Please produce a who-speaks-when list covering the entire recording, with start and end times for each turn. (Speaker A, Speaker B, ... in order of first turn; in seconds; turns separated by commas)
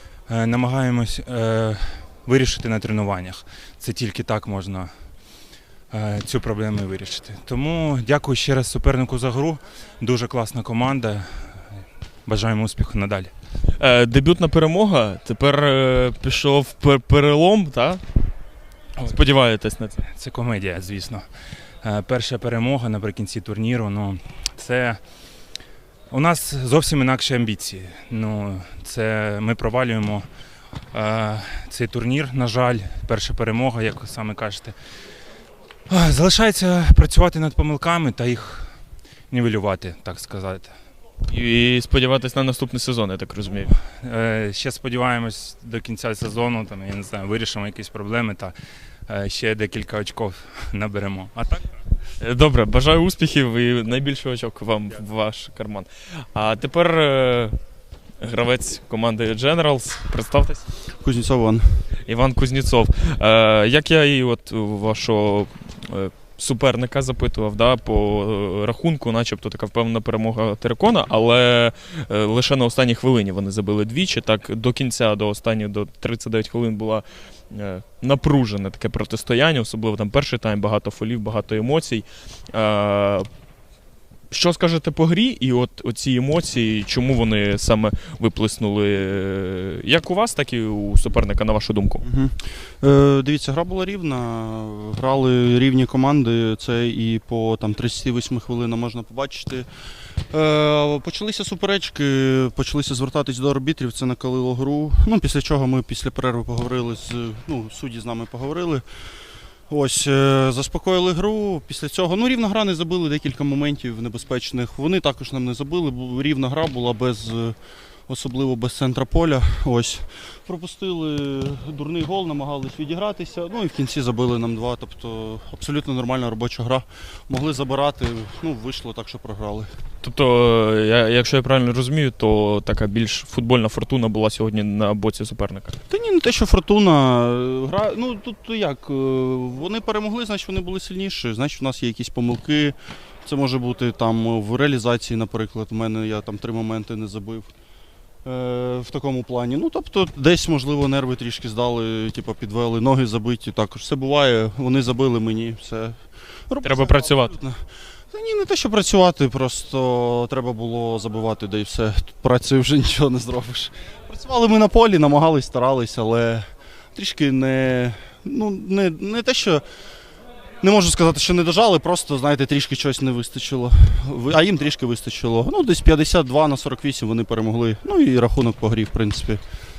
Speaker A: 0.3-4.9, Speaker A: 5.9-11.6, Speaker A: 12.2-13.3, Speaker B: 13.8-18.0, Speaker B: 19.0-20.0, Speaker A: 20.0-21.2, Speaker A: 21.8-25.0, Speaker A: 26.1-30.2, Speaker A: 30.9-34.7, Speaker A: 35.9-38.7, Speaker A: 39.3-40.7, Speaker B: 41.2-43.7, Speaker A: 43.8-48.5, Speaker A: 49.1-51.6, Speaker B: 52.2-57.5, Speaker B: 58.2-60.6, Speaker C: 61.0-61.8, Speaker B: 62.0-83.3, Speaker B: 84.3-92.0, Speaker C: 92.0-99.7, Speaker C: 100.3-108.8, Speaker C: 109.7-117.5, Speaker C: 118.1-129.7, Speaker B: 130.0-135.8, Speaker C: 135.9-147.5, Speaker C: 148.2-155.9, Speaker C: 156.5-157.6, Speaker B: 156.6-157.3, Speaker C: 158.1-169.6, Speaker C: 170.6-179.4